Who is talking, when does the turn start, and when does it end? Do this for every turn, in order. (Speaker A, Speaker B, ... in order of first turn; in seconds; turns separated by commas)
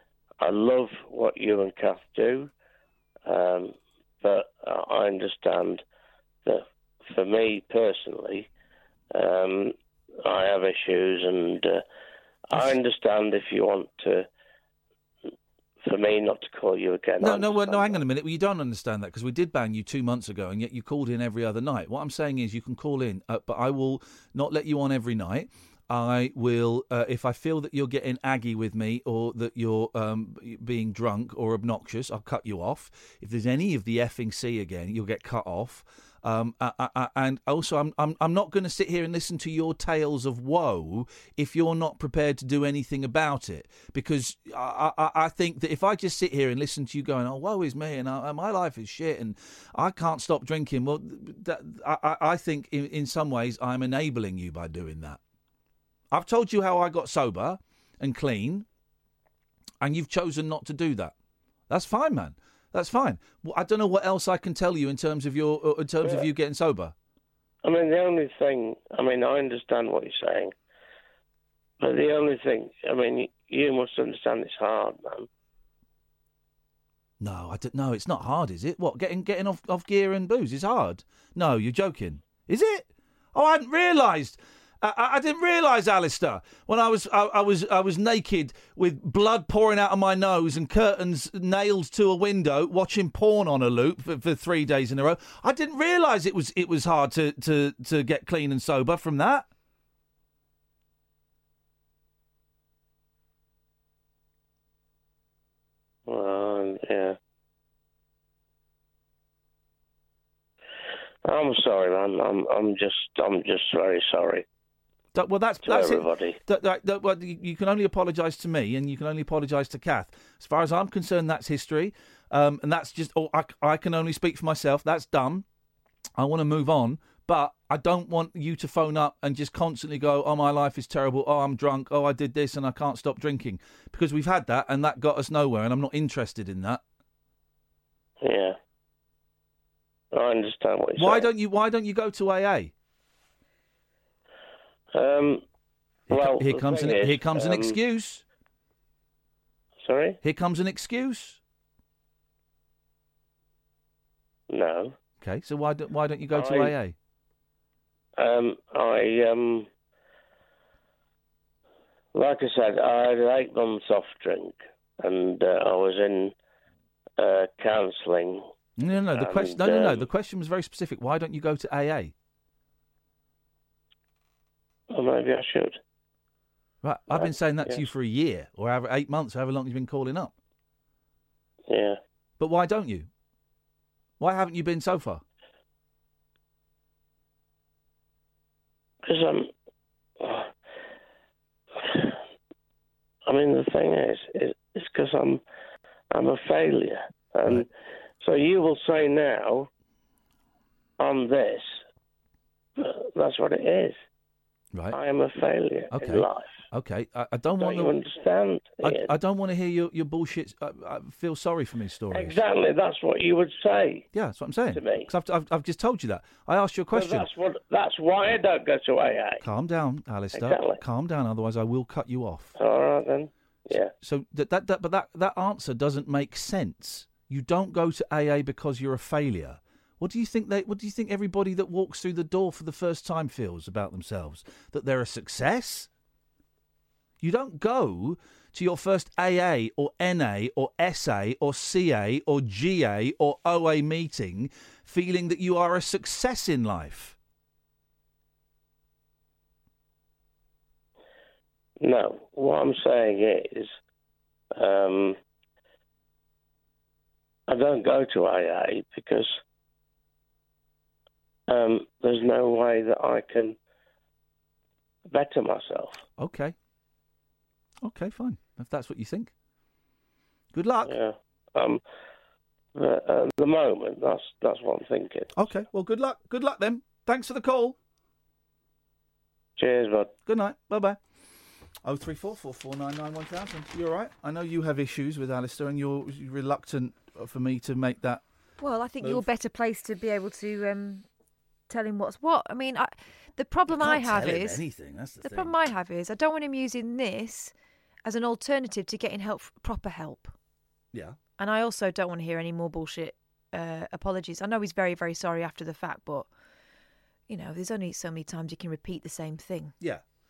Speaker A: 0.4-2.5, Speaker A: 3.3-5.8, Speaker A: 6.4-8.5, Speaker A: 9.1-11.8, Speaker A: 12.5-14.3, Speaker A: 15.8-18.0, Speaker B: 17.2-55.2, Speaker B: 56.1-58.7, Speaker B: 59.8-61.1, Speaker B: 61.7-66.9, Speaker A: 67.6-70.5, Speaker A: 71.8-75.3, Speaker B: 77.2-99.5, Speaker A: 106.1-107.2, Speaker A: 111.2-114.5, Speaker B: 115.2-125.5, Speaker A: 115.7-116.4, Speaker B: 126.2-136.8, Speaker A: 138.2-138.6, Speaker A: 140.1-141.3, Speaker B: 141.0-142.7, Speaker A: 144.9-145.4, Speaker B: 146.1-148.2, Speaker A: 146.1-147.8, Speaker A: 149.8-150.2, Speaker B: 150.2-151.4, Speaker A: 154.5-154.9, Speaker B: 155.2-156.9, Speaker A: 156.3-156.8, Speaker A: 158.2-159.7, Speaker A: 162.1-166.3, Speaker A: 167.2-168.5, Speaker B: 168.8-172.1, Speaker A: 169.1-170.1, Speaker A: 174.9-175.8, Speaker B: 176.8-180.3, Speaker A: 177.1-177.8, Speaker A: 181.7-182.0, Speaker B: 182.4-183.1, Speaker B: 184.2-185.2, Speaker A: 189.1-189.5, Speaker A: 190.2-190.5, Speaker A: 191.8-192.2, Speaker A: 193.3-195.4, Speaker A: 196.1-197.7, Speaker A: 198.2-199.7, Speaker A: 201.0-201.8, Speaker A: 202.8-204.0, Speaker A: 204.9-206.6, Speaker B: 205.9-208.0, Speaker A: 207.6-209.1, Speaker B: 208.8-212.4, Speaker A: 212.1-214.1, Speaker B: 214.1-217.3, Speaker A: 214.7-215.1, Speaker A: 216.9-219.4, Speaker B: 219.4-222.5, Speaker A: 220.3-220.8, Speaker A: 222.6-223.9, Speaker B: 224.0-235.9, Speaker B: 237.2-247.2, Speaker A: 251.8-253.8, Speaker A: 254.6-255.2, Speaker A: 257.5-259.4, Speaker A: 261.5-263.6, Speaker A: 265.1-266.0, Speaker B: 266.2-266.6, Speaker B: 267.8-269.3, Speaker B: 270.5-271.0, Speaker A: 270.8-271.8, Speaker A: 272.8-275.4, Speaker B: 275.4-277.8, Speaker A: 279.6-280.1, Speaker B: 280.3-281.0, Speaker B: 281.8-288.2, Speaker C: 288.6-291.1, Speaker C: 291.7-294.6, Speaker B: 293.7-295.5, Speaker C: 295.2-297.5, Speaker C: 298.1-300.3, Speaker C: 301.4-306.3, Speaker C: 307.3-309.7